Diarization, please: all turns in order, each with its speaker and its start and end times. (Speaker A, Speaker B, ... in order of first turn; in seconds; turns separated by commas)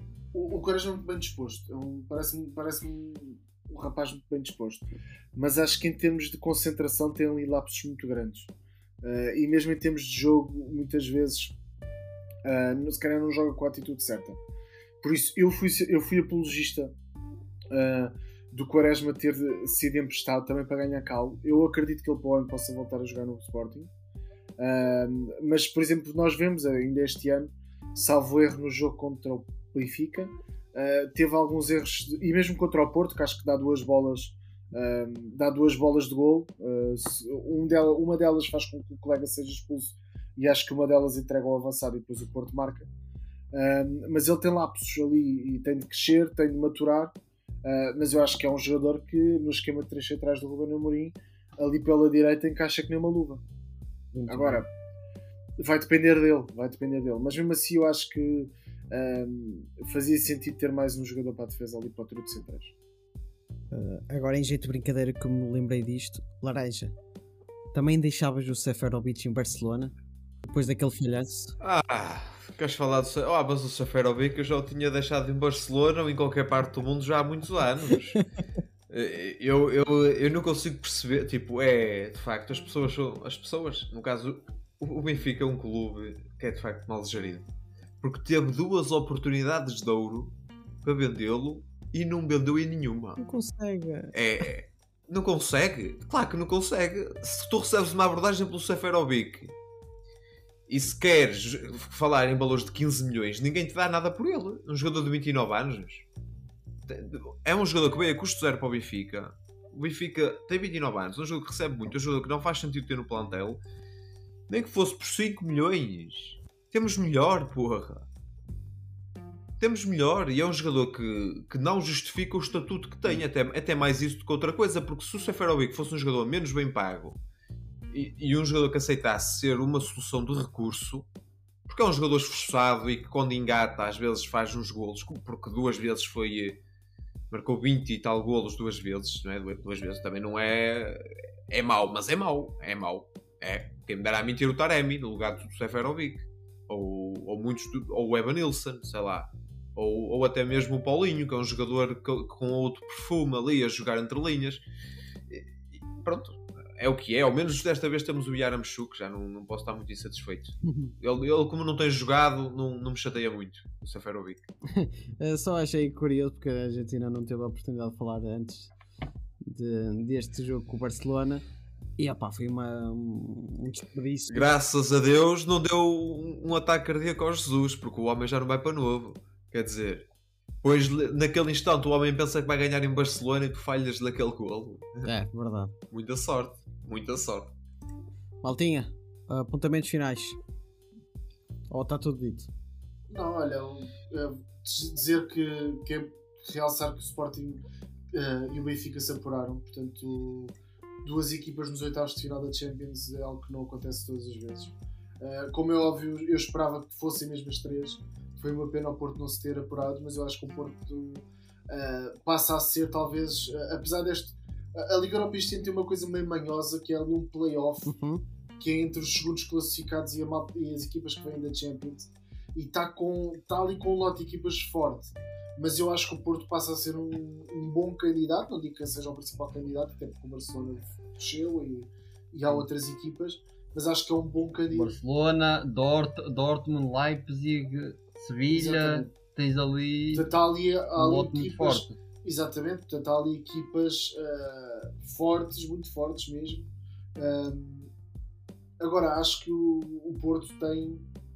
Speaker A: 0.3-8.5, Speaker A: 9.0-11.6, Speaker A: 12.4-14.4, Speaker A: 15.0-16.9, Speaker A: 17.7-23.9, Speaker A: 24.6-42.9, Speaker A: 43.5-53.4, Speaker B: 54.1-54.6, Speaker A: 54.3-54.7, Speaker A: 55.6-62.7, Speaker B: 63.7-66.9, Speaker B: 67.7-69.9, Speaker B: 70.5-71.5, Speaker C: 71.6-78.2, Speaker C: 78.9-87.5, Speaker C: 88.0-93.2, Speaker B: 93.2-94.1, Speaker C: 94.1-99.5, Speaker C: 100.7-106.1, Speaker C: 106.9-113.6, Speaker C: 114.5-118.1, Speaker C: 119.6-127.2, Speaker C: 127.9-131.1, Speaker C: 131.7-136.6, Speaker C: 137.3-154.6, Speaker C: 155.3-164.5, Speaker B: 160.7-160.9, Speaker B: 164.7-168.7, Speaker B: 169.4-171.4, Speaker B: 172.0-174.6, Speaker C: 174.3-180.1, Speaker C: 180.6-185.1, Speaker B: 185.0-185.7, Speaker C: 185.9-187.6, Speaker B: 188.4-190.4, Speaker B: 191.7-192.5, Speaker A: 193.1-217.9, Speaker B: 217.9-218.2, Speaker A: 218.6-234.9, Speaker D: 234.7-240.3, Speaker A: 238.5-239.1, Speaker A: 240.1-247.9, Speaker D: 241.0-242.0, Speaker A: 248.8-251.1